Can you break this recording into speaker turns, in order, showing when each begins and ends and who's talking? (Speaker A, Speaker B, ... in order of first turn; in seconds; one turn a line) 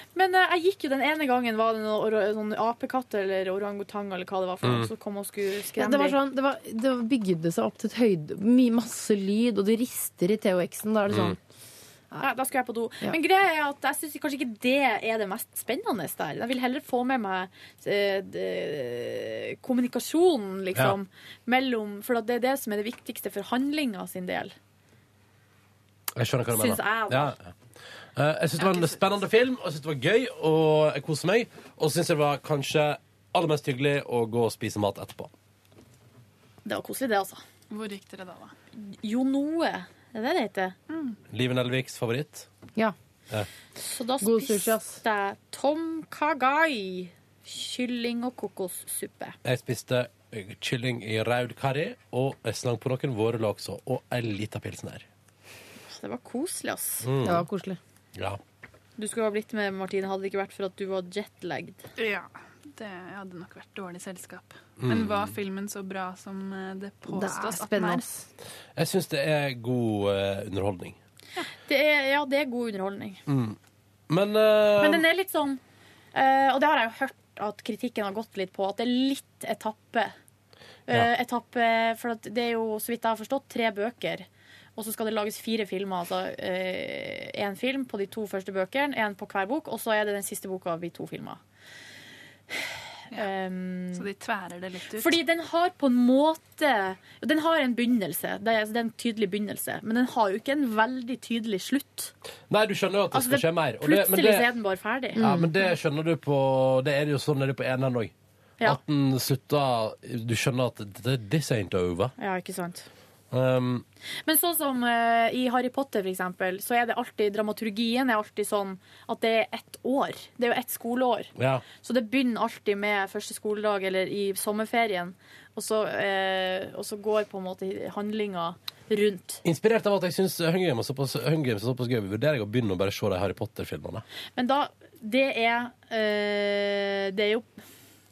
Speaker A: 0.1-6.2
Speaker B: 4.6-4.9
Speaker C: 5.8-11.4
Speaker B: 11.1-11.4
Speaker A: 12.2-24.6
Speaker B: 26.2-27.5
Speaker A: 26.5-27.4
Speaker B: 28.2-35.3
Speaker D: 28.6-29.0
Speaker A: 36.6-37.4
Speaker D: 37.7-38.5
Speaker A: 38.8-40.8
Speaker D: 40.9-41.2
Speaker B: 41.3-42.5
Speaker A: 43.8-49.4
Speaker C: 44.2-45.0
Speaker B: 49.4-55.0
Speaker A: 55.9-57.1
Speaker B: 57.0-57.5
Speaker C: 57.2-57.8
Speaker A: 59.0-61.9
Speaker D: 62.0-68.0
Speaker B: 64.8-65.4
Speaker C: 67.1-68.3
Speaker B: 68.8-71.0
Speaker A: 71.4-73.2
Speaker B: 73.3-73.6
Speaker B: 74.1-75.1
Speaker A: 74.8-75.6
Speaker A: 76.1-80.2
Speaker A: 80.9-91.4
Speaker A: 93.1-94.1
Speaker D: 93.9-95.2
Speaker A: 95.0-102.1
Speaker B: 102.5-104.5
Speaker A: 103.1-105.3
Speaker C: 105.2-105.5
Speaker B: 105.2-112.2
Speaker A: 112.2-112.9
Speaker B: 113.3-113.8
Speaker A: 114.2-121.3
Speaker B: 121.4-121.6
Speaker A: 121.8-129.4
Speaker B: 129.4-134.0
Speaker A: 134.4-137.5